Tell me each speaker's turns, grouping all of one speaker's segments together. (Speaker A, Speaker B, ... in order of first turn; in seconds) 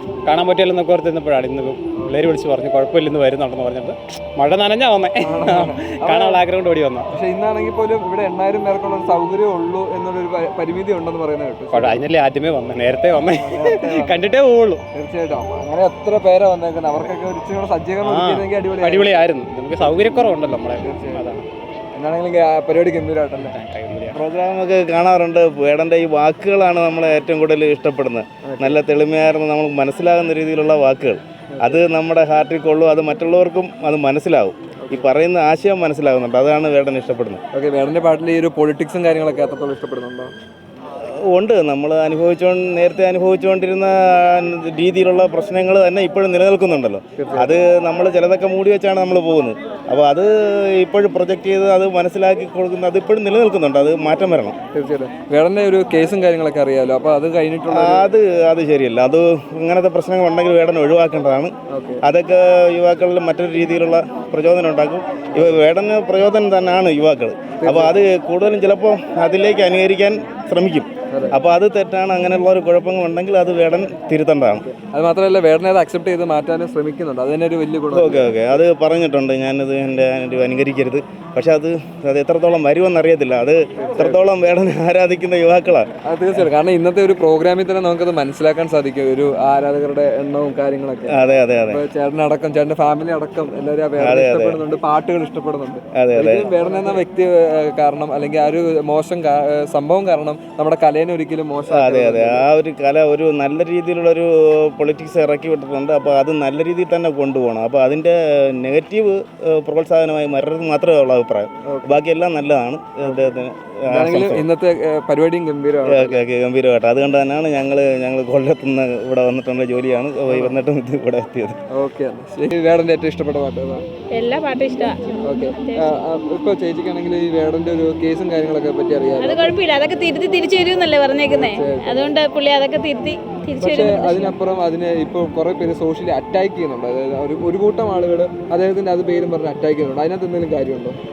Speaker A: 0.2-7.1, 11.7-14.8, 18.0-21.4, 23.4-24.2
Speaker B: 1.9-2.2, 5.2-6.4, 7.1-12.0, 13.3-14.2, 14.9-19.1, 20.8-21.4, 21.9-23.6, 28.4-28.8, 31.5-31.8, 37.5-40.3, 47.2-47.6, 54.7-58.1, 61.7-62.0, 65.3-65.6, 67.6-68.0, 71.1-71.3, 74.7-78.6, 83.8-84.3, 86.0-102.4, 111.7-111.9, 113.0-113.3, 113.9-116.2, 120.3-120.5, 121.7-123.8, 125.2-129.6, 131.3-132.1, 133.6-141.0
Speaker C: 24.1-37.4, 41.3-54.5, 57.7-74.7, 77.9-85.9, 91.0-91.8, 94.0-94.6, 96.0-96.5, 101.7-114.5, 115.8-121.6
Speaker D: 124.1-126.0, 129.2-134.3